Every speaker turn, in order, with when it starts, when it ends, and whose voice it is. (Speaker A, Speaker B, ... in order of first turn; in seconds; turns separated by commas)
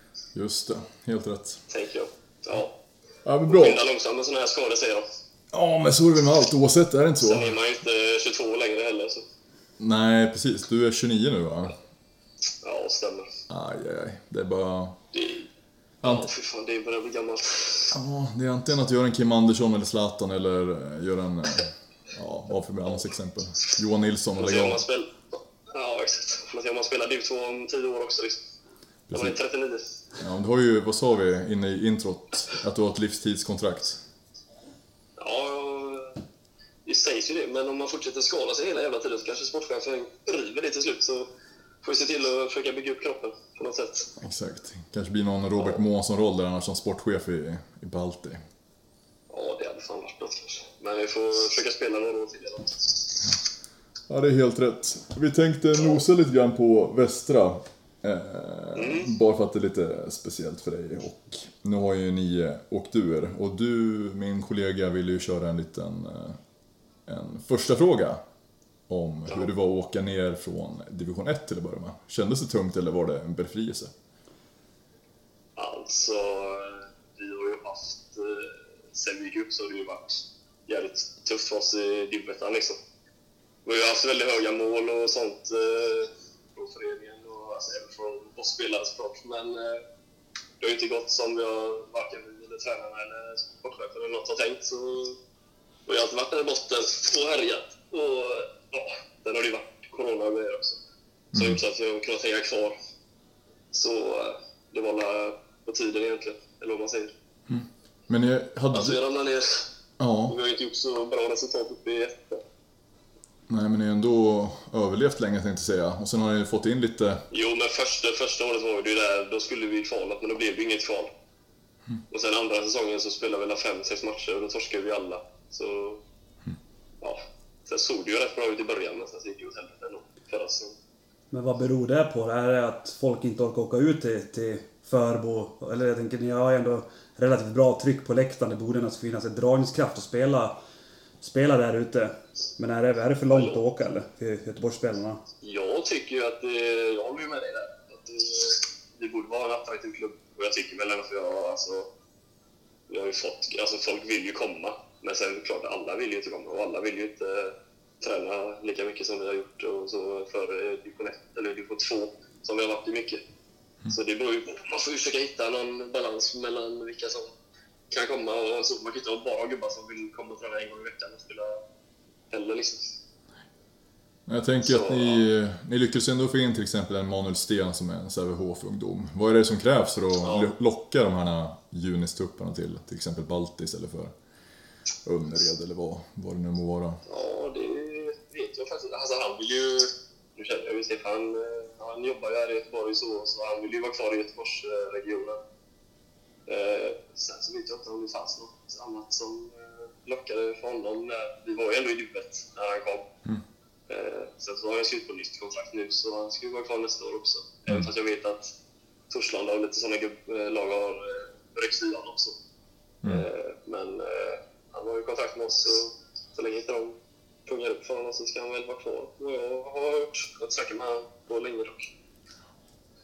Speaker A: 0.3-1.6, Speaker B: 1.7-2.7, Speaker A: 3.2-3.8, Speaker B: 3.5-5.0, Speaker A: 5.5-7.5, Speaker B: 7.2-9.2, Speaker A: 9.8-11.8, Speaker B: 12.6-13.3, Speaker A: 13.5-15.0, Speaker B: 15.1-15.5, Speaker A: 16.0-16.3, Speaker B: 16.0-17.9, Speaker A: 17.9-24.8, Speaker B: 24.4-28.4, Speaker A: 29.1-29.4, Speaker B: 29.1-29.8, Speaker A: 30.2-34.0, Speaker B: 35.2-36.2, Speaker B: 36.9-41.3, Speaker B: 41.8-44.1, Speaker A: 44.2-48.4, Speaker B: 49.3-53.2, Speaker A: 54.1-66.4, Speaker B: 58.7-59.1, Speaker A: 67.1-68.2, Speaker A: 68.9-73.9, Speaker B: 75.6-82.8, Speaker B: 83.6-89.8, Speaker B: 90.6-95.2, Speaker B: 95.9-100.8, Speaker A: 101.3-101.6, Speaker B: 101.3-102.7, Speaker B: 103.7-107.1, Speaker A: 107.5-109.0, Speaker B: 108.7-109.7, Speaker A: 110.0-110.4, Speaker B: 110.3-112.4, Speaker A: 113.5-117.2, Speaker B: 117.3-121.1, Speaker B: 122.1-126.0, Speaker B: 127.0-130.7, Speaker C: 131.3-140.5, Speaker C: 141.2-145.2, Speaker B: 143.3-143.6, Speaker B: 145.4-151.9, Speaker B: 152.9-163.2, Speaker B: 163.9-167.3, Speaker B: 167.9-171.6, Speaker B: 172.3-172.9, Speaker A: 174.3-184.1, Speaker B: 174.6-175.2, Speaker B: 180.2-180.5, Speaker A: 185.0-187.0, Speaker B: 187.1-195.4, Speaker B: 196.5-203.1, Speaker B: 203.9-208.5, Speaker B: 209.1-212.4, Speaker B: 213.0-216.9, Speaker B: 217.4-221.9